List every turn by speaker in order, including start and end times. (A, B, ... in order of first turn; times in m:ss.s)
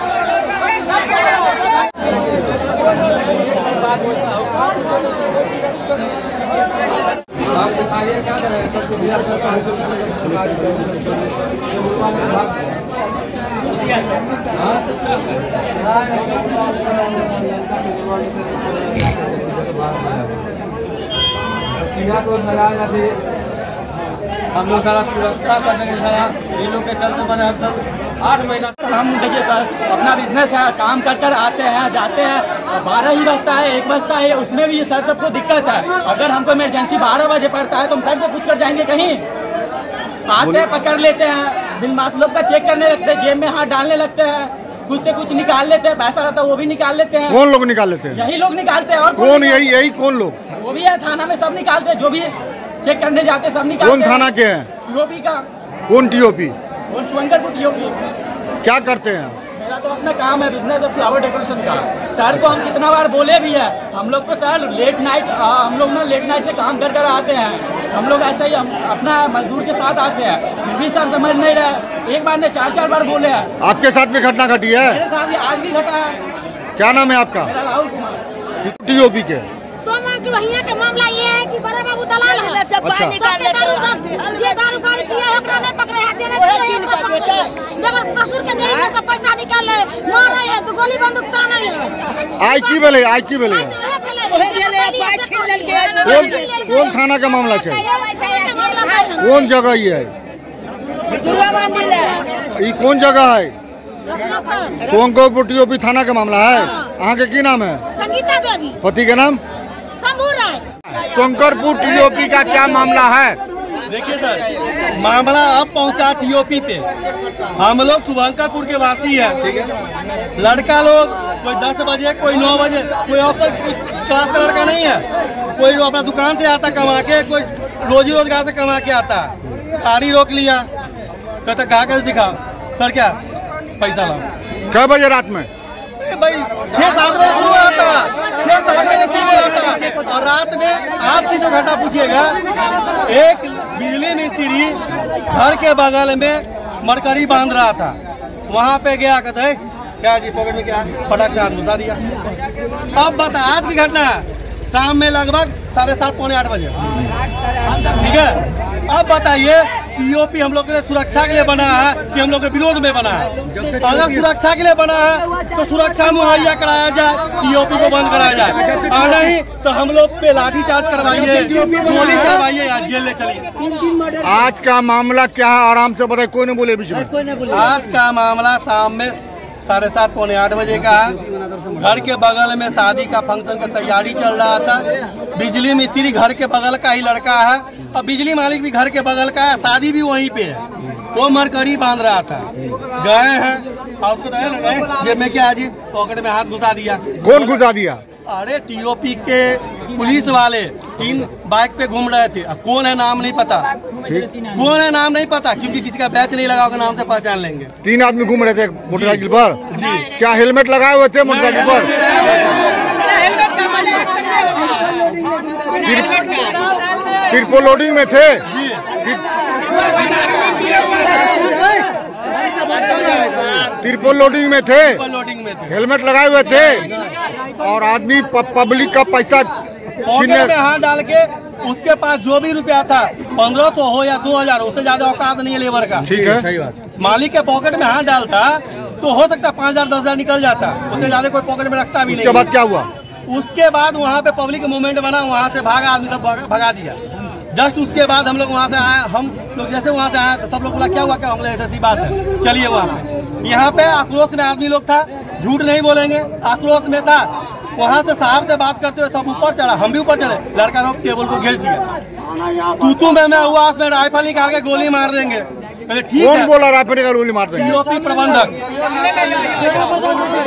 0:19.5-0:20.1 A
0:22.1-0:23.1 A
0:25.0-0:27.7 A
0:25.7-0:26.3 B
0:28.3-0:39.3 A
0:40.3-0:47.4 A
0:40.4-0:40.7 C
0:47.3-0:48.3 C
0:48.2-0:49.6 A
0:49.2-0:50.4 C
0:50.6-0:54.2 A
0:53.8-0:54.7 C
0:54.8-0:55.5 A
0:55.9-0:56.6 C
0:56.9-0:58.0 A
0:58.6-0:59.4 C
0:59.6-1:13.5 A
1:13.6-1:15.0 C
1:14.9-1:16.2 A
1:16.8-1:17.5 C
1:17.5-1:18.2 A
1:18.6-1:19.5 C
1:19.8-1:32.0 D
1:22.8-1:23.2 C
1:32.4-1:33.8 C
1:33.7-1:36.8 D
1:36.0-1:37.9 C
1:37.9-1:39.3 D
1:39.2-1:40.1 C
1:41.1-1:42.2 D
1:42.6-1:43.5 C
1:44.1-1:44.8 D
1:44.8-1:47.8 C
1:48.0-1:48.8 D
1:48.8-1:49.4 C
1:50.0-1:50.6 D
1:50.9-1:53.4 C
1:53.9-1:56.9 B
1:57.6-1:59.5 B
2:00.4-2:10.7 B
2:11.4-2:13.2 B
2:13.8-2:14.3 B
2:14.7-2:15.5 C
2:16.0-2:22.4 B
2:23.0-2:28.0 B
2:28.5-2:32.0 B
2:32.9-2:36.8 B
2:38.0-2:53.5 B
2:54.2-2:57.2 C
2:57.5-3:01.2 B
3:01.7-3:17.6 B
3:17.2-3:18.0 C
3:18.3-3:23.7 B
3:24.4-3:27.7 B
3:27.8-3:29.6 C
3:28.9-3:30.1 B
3:30.1-3:31.9 C
3:31.2-3:32.5 B
3:35.8-3:36.5 C
3:37.3-3:38.4 C
3:38.5-3:38.9 B
3:42.8-3:43.6 B
3:43.8-3:45.0 C
3:44.9-3:45.8 B
3:45.7-3:46.9 C
3:47.6-3:49.5 C
3:50.1-3:56.1 B
3:50.1-3:50.6 C
3:56.0-3:56.5 C
3:57.0-4:02.5 B
4:02.1-4:02.9 C
4:03.3-4:07.0 B
4:07.5-4:21.9 B
4:22.8-4:26.5 B
4:26.2-4:27.8 C
4:27.6-4:28.6 B